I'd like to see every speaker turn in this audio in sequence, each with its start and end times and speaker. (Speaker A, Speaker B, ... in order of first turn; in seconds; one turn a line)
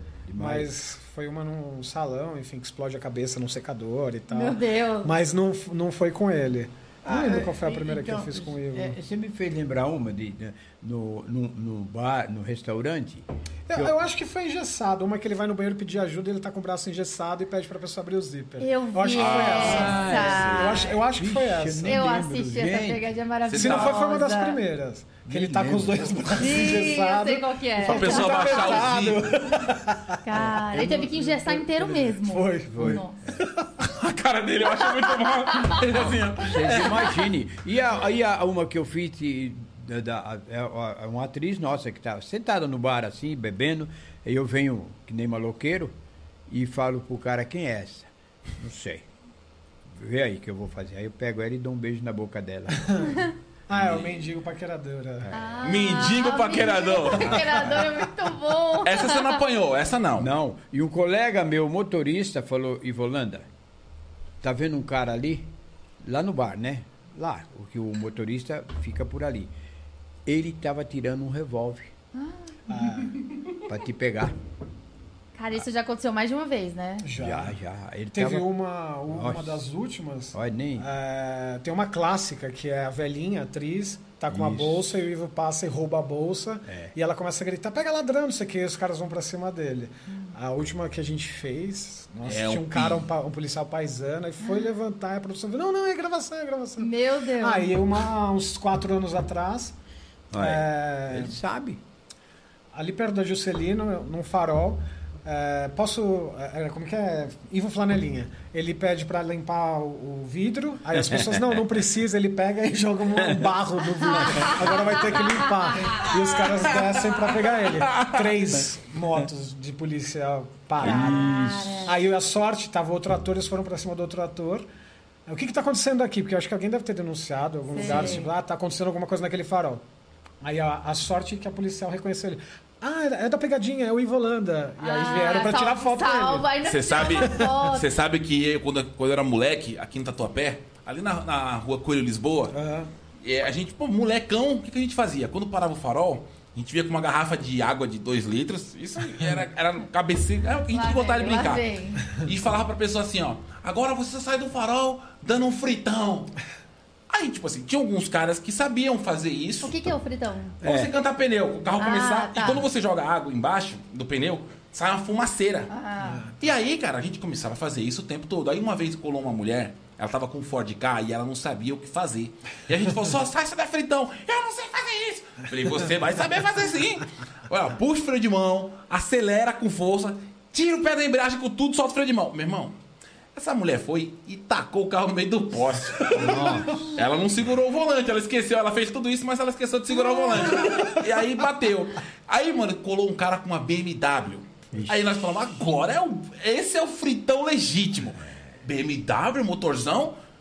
Speaker A: 0.3-0.7
Speaker B: 0.4-8.9
Speaker C: 4.3-5.1
Speaker A: 7.0-14.0
Speaker B: 13.7-22.0
Speaker C: 18.6-20.9
Speaker D: 19.1-20.8
Speaker A: 19.6-23.1
Speaker C: 21.8-24.6
Speaker D: 23.5-24.0
Speaker B: 23.5-33.7
Speaker A: 25.3-26.7
Speaker C: 26.4-28.8
Speaker D: 27.8-29.6
Speaker C: 30.2-33.2
Speaker A: 30.4-31.2
Speaker A: 32.7-33.5
Speaker D: 33.8-37.3
Speaker A: 36.4-45.9
Speaker A: 46.5-49.1
Speaker A: 49.9-53.1
Speaker B: 52.9-53.1
Speaker B: 53.7-55.3
Speaker D: 53.7-54.2
Speaker A: 55.2-55.5
Speaker C: 55.3-59.4
Speaker D: 55.6-57.8
Speaker B: 57.3-57.8
Speaker D: 58.8-60.3
Speaker A: 60.2-63.5
Speaker A: 64.4-69.5
Speaker A: 70.3-71.9
Speaker C: 72.2-72.5
Speaker B: 72.7-73.2
Speaker A: 73.6-74.4
Speaker C: 75.3-77.1
Speaker B: 77.0-77.5
Speaker A: 77.2-78.5
Speaker B: 78.1-99.8
Speaker A: 79.1-79.6
Speaker A: 80.3-80.9
Speaker A: 84.3-84.9
Speaker A: 86.7-86.9
Speaker D: 92.2-93.1
Speaker C: 96.8-97.7
Speaker A: 100.3-101.8
Speaker B: 100.4-101.4
Speaker B: 102.7-121.2
Speaker A: 111.0-111.6
Speaker A: 113.2-113.5
Speaker D: 117.8-118.1
Speaker A: 120.8-121.9
Speaker C: 120.8-121.9
Speaker B: 121.8-124.7
Speaker B: 125.3-129.8
Speaker C: 127.7-128.3
Speaker B: 130.4-137.6
Speaker C: 134.8-137.8
Speaker D: 136.7-142.6
Speaker B: 142.5-142.9
Speaker D: 143.2-156.3
Speaker C: 150.7-152.1
Speaker D: 157.1-159.9
Speaker C: 159.6-160.6
Speaker A: 160.6-160.9
Speaker D: 160.6-165.7
Speaker C: 161.8-162.7
Speaker C: 165.7-166.3
Speaker B: 166.0-166.3
Speaker D: 166.4-182.8
Speaker D: 183.3-200.2
Speaker A: 186.1-186.9
Speaker A: 194.7-195.0